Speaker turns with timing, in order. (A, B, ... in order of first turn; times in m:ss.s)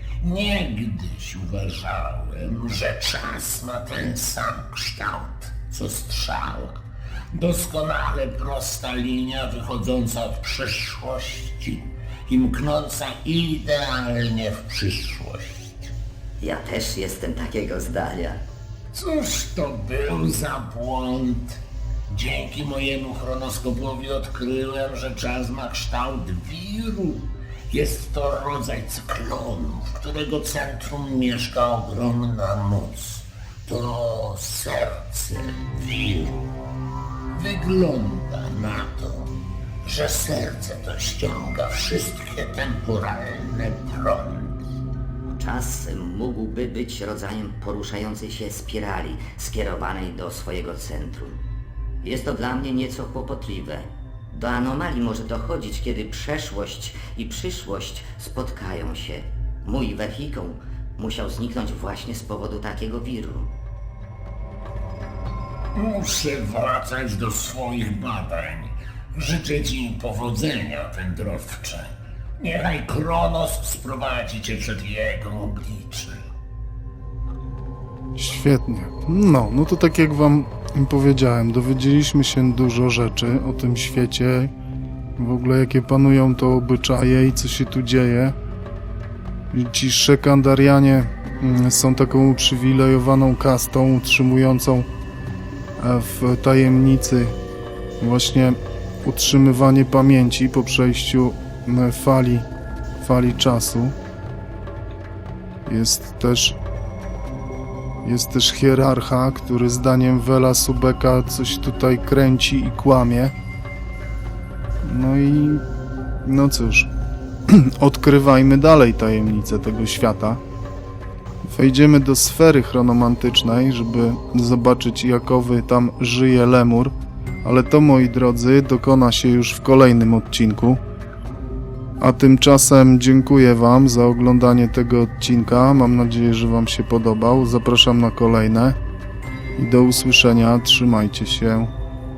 0:00.2-0:15.9 A
0:16.4-0:18.4 B
0:18.9-0:36.5 A
0:37.3-0:44.8 A
0:45.4-0:51.4 B
0:52.0-1:03.5 B
1:05.8-1:16.3 A
1:18.2-1:24.5 C
1:25.2-1:28.4 C
1:29.5-1:34.9 C
1:35.8-1:37.4 C
1:38.0-1:42.5 C
1:43.0-1:44.0 C
1:45.7-1:46.6 C
1:48.0-1:53.3 C
1:54.8-1:55.6 C
1:56.2-1:56.9 C
1:57.5-2:00.4 C
2:01.4-2:10.8 C
2:12.0-2:18.8 C
2:19.6-2:21.7 C